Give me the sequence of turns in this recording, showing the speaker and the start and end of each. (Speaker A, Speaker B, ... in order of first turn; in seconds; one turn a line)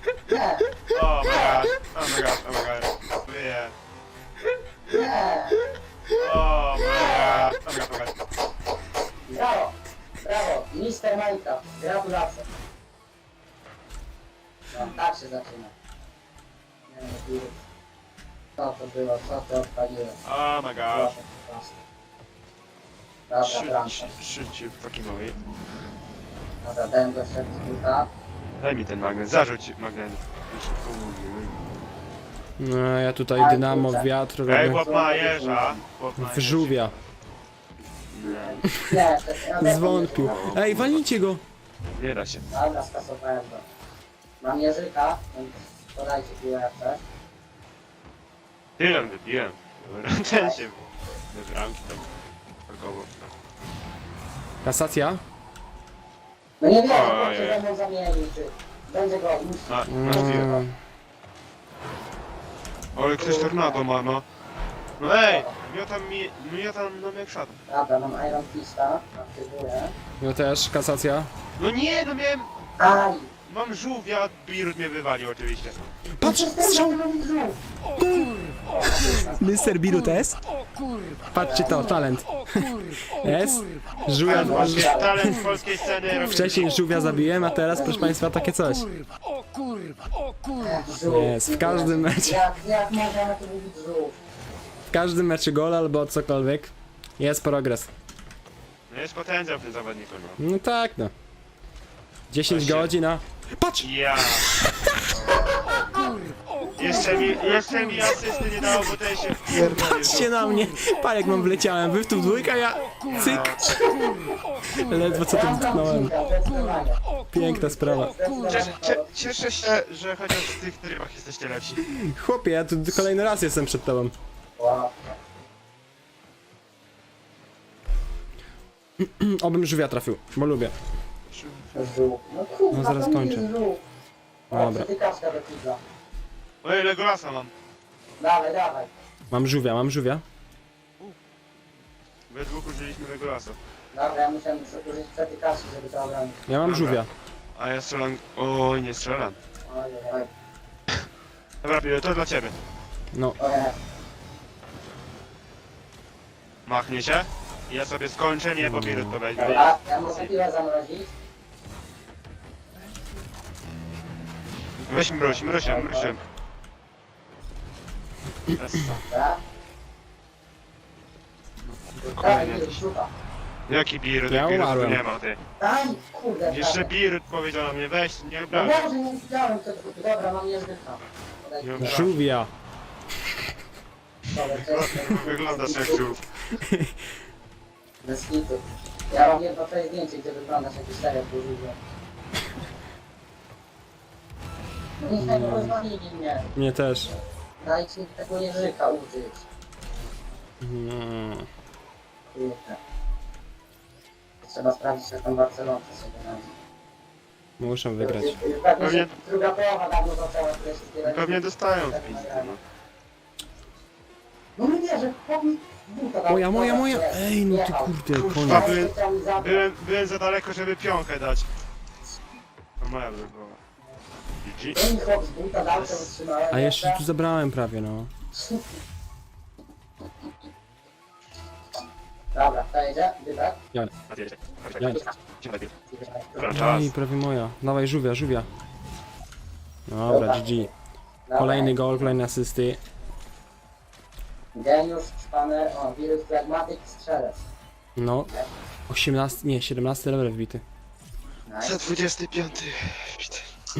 Speaker A: 0.3-0.7
Speaker B: 0.9-3.7
Speaker A: 1.2-1.6
Speaker A: 4.9-5.6
Speaker B: 6.1-8.2
Speaker A: 6.9-7.5
Speaker A: 9.3-12.5
Speaker A: 14.7-15.7
Speaker A: 16.9-17.6
Speaker A: 18.6-20.2
Speaker B: 20.2-21.1
Speaker A: 20.9-21.8
Speaker A: 23.3-24.1
Speaker B: 23.4-25.5
Speaker A: 26.6-28.1
Speaker B: 28.6-31.6
Speaker C: 32.6-34.9
Speaker A: 33.3-34.1
Speaker B: 34.5-37.0
Speaker A: 34.7-35.8
Speaker C: 36.2-36.9
Speaker B: 38.1-38.6
Speaker A: 38.2-40.5
Speaker C: 38.7-39.0
Speaker C: 39.6-41.4
Speaker B: 40.1-41.0
Speaker B: 42.0-42.5
Speaker A: 42.5-43.6
Speaker A: 44.4-47.0
Speaker B: 48.8-52.1
Speaker A: 50.3-50.6
Speaker B: 52.7-53.2
Speaker C: 54.6-55.2
Speaker A: 56.6-60.5
Speaker B: 56.9-57.6
Speaker B: 59.7-60.6
Speaker C: 59.9-60.7
Speaker B: 62.9-64.2
Speaker A: 63.2-63.8
Speaker B: 65.0-67.6
Speaker A: 65.2-65.5
Speaker A: 67.7-69.9
Speaker C: 70.2-71.3
Speaker B: 71.6-72.5
Speaker A: 72.8-73.3
Speaker B: 73.5-75.8
Speaker C: 76.2-77.0
Speaker A: 76.2-77.6
Speaker C: 78.0-80.4
Speaker A: 78.7-79.5
Speaker C: 81.3-85.4
Speaker A: 81.4-82.0
Speaker A: 84.2-85.2
Speaker B: 84.2-86.7
Speaker C: 86.3-88.9
Speaker A: 87.7-88.1
Speaker A: 90.6-94.2
Speaker C: 91.1-92.5
Speaker C: 94.9-97.9
Speaker B: 98.9-100.4
Speaker C: 100.4-101.1
Speaker C: 102.3-105.0
Speaker B: 102.5-102.9
Speaker B: 103.8-104.5
Speaker B: 106.8-110.3
Speaker C: 109.5-113.5
Speaker B: 113.1-113.6
Speaker A: 113.6-114.2
Speaker C: 114.7-116.1
Speaker A: 115.0-117.0
Speaker C: 117.3-118.1
Speaker A: 117.8-119.4
Speaker B: 118.5-121.8
Speaker C: 121.9-124.1
Speaker A: 124.6-125.2
Speaker C: 129.0-130.7
Speaker B: 131.3-131.7
Speaker A: 131.7-133.8
Speaker C: 132.7-133.4
Speaker A: 134.5-135.8
Speaker C: 134.5-134.9
Speaker B: 136.6-137.5
Speaker A: 138.2-138.9
Speaker C: 139.3-140.2
Speaker B: 142.3-143.6
Speaker A: 143.9-146.4
Speaker C: 146.5-147.1
Speaker B: 146.6-147.0
Speaker B: 147.5-149.3
Speaker A: 149.6-150.3
Speaker B: 151.6-152.5
Speaker A: 153.4-153.7
Speaker B: 156.7-160.3
Speaker C: 158.6-159.2
Speaker A: 159.3-161.1
Speaker B: 164.8-166.2
Speaker A: 164.9-166.1
Speaker B: 168.6-169.0
Speaker A: 168.8-169.4
Speaker B: 171.7-172.8
Speaker A: 172.0-173.1
Speaker B: 173.7-175.4
Speaker C: 174.3-175.0
Speaker A: 175.6-176.9
Speaker B: 176.4-178.9
Speaker A: 178.5-182.2
Speaker B: 181.6-182.0
Speaker C: 181.8-182.5
Speaker A: 184.3-186.1
Speaker B: 184.4-186.2
Speaker C: 186.7-186.9
Speaker A: 188.0-191.8
Speaker A: 195.0-196.4
Speaker C: 195.2-195.8
Speaker C: 196.5-197.1
Speaker A: 197.6-199.4
Speaker C: 200.6-201.5
Speaker A: 202.3-202.8
Speaker A: 204.4-206.5
Speaker C: 207.6-208.4
Speaker A: 208.0-212.5
Speaker B: 208.8-209.1
Speaker B: 211.0-212.6
Speaker A: 214.6-219.6
Speaker C: 216.3-218.8
Speaker B: 218.1-221.4
Speaker B: 222.8-223.6
Speaker B: 224.4-224.8
Speaker A: 224.7-227.0
Speaker B: 225.7-226.1
Speaker C: 226.5-228.1
Speaker A: 228.3-228.6
Speaker A: 232.3-233.6
Speaker B: 234.1-235.7
Speaker A: 235.9-236.6
Speaker B: 236.4-236.9
Speaker C: 236.5-238.5
Speaker C: 239.9-240.7
Speaker A: 240.1-240.7
Speaker A: 241.3-242.1
Speaker C: 241.4-242.8
Speaker A: 244.5-247.5
Speaker C: 247.9-248.3
Speaker C: 248.9-250.6
Speaker A: 251.5-251.8
Speaker B: 251.6-253.5